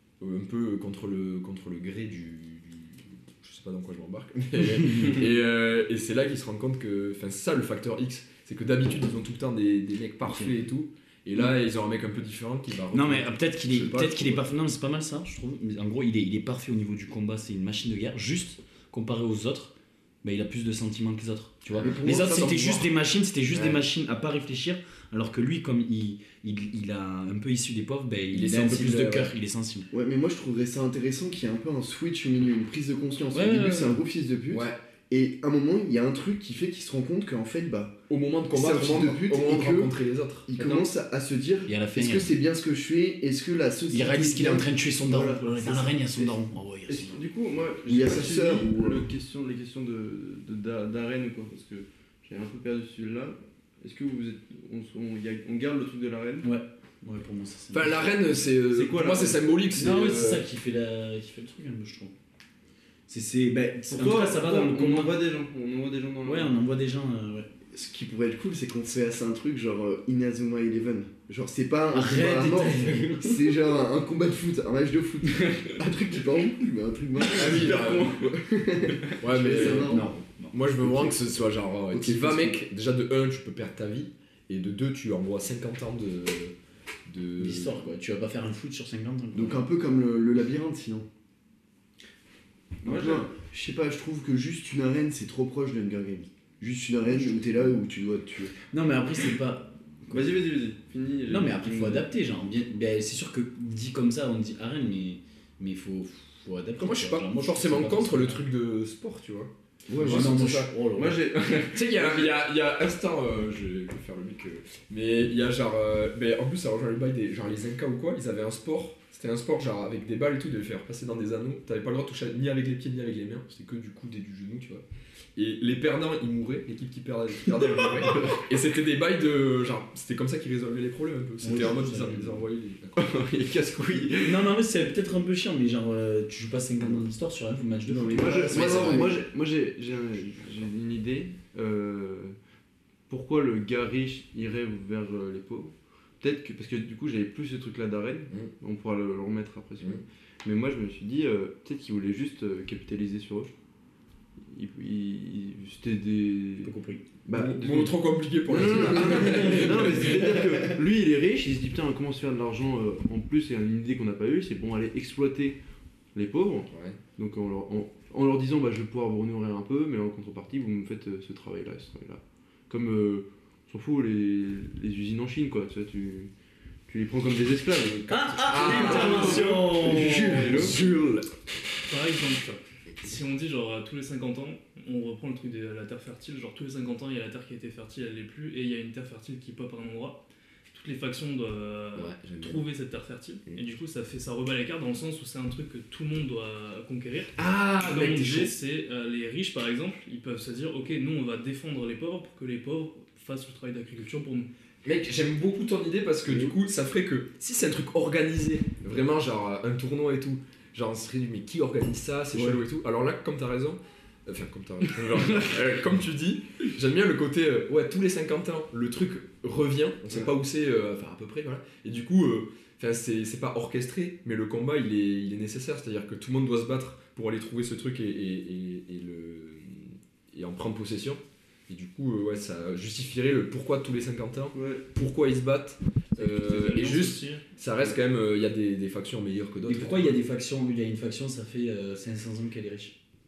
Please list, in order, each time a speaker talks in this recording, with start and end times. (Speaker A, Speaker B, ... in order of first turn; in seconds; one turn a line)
Speaker A: 0.2-14.4
Speaker B: 12.9-29.9
Speaker A: 21.7-22.9
Speaker C: 21.8-22.5
Speaker A: 23.5-23.8
Speaker A: 28.3-29.3
Speaker C: 29.9-38.0
Speaker B: 33.3-34.0
Speaker A: 34.5-34.8
Speaker A: 38.1-40.5
Speaker C: 38.5-40.0
Speaker C: 40.5-46.3
Speaker D: 40.6-40.9
Speaker B: 41.7-42.3
Speaker B: 43.9-47.2
Speaker D: 46.9-56.5
Speaker C: 47.9-49.1
Speaker B: 56.4-58.1
Speaker A: 57.7-60.4
Speaker D: 58.7-59.4
Speaker B: 59.7-62.1
Speaker B: 63.1-65.2
Speaker D: 63.9-66.6
Speaker B: 66.2-67.5
Speaker C: 67.7-80.1
Speaker B: 71.9-73.5
Speaker A: 77.3-78.3
Speaker D: 77.5-78.3
Speaker A: 79.2-86.5
Speaker B: 79.6-80.5
Speaker C: 80.8-81.3
Speaker C: 81.9-82.6
Speaker A: 87.1-87.8
Speaker B: 87.4-89.7
Speaker C: 89.3-91.1
Speaker D: 92.8-93.3
Speaker C: 92.8-98.6
Speaker B: 98.7-100.5
Speaker D: 100.1-102.1
Speaker B: 101.3-108.5
Speaker A: 106.8-110.7
Speaker C: 109.9-110.4
Speaker B: 110.0-111.2
Speaker D: 111.0-112.4
Speaker A: 111.7-124.8
Speaker A: 125.4-133.0
Speaker B: 131.4-132.4
Speaker D: 133.0-134.5
Speaker B: 134.1-138.6
Speaker C: 137.9-139.2
Speaker D: 138.2-142.4
Speaker A: 138.5-139.1
Speaker D: 143.1-153.5
Speaker D: 154.4-156.7
Speaker B: 156.6-157.0
Speaker D: 157.3-157.9
Speaker A: 157.3-160.4
Speaker D: 158.5-165.6
Speaker D: 166.1-176.3
Speaker A: 166.7-167.0
Speaker D: 176.9-180.8
Speaker A: 177.9-181.2
Speaker B: 178.1-180.7
Speaker C: 180.0-180.7
Speaker E: 181.9-204.5
Speaker A: 191.9-192.7
Speaker A: 197.4-198.6
Speaker A: 204.8-240.2
Speaker C: 206.3-206.5
Speaker C: 212.3-212.6
Speaker D: 234.5-234.8
Speaker E: 236.2-237.4
Speaker B: 239.7-243.0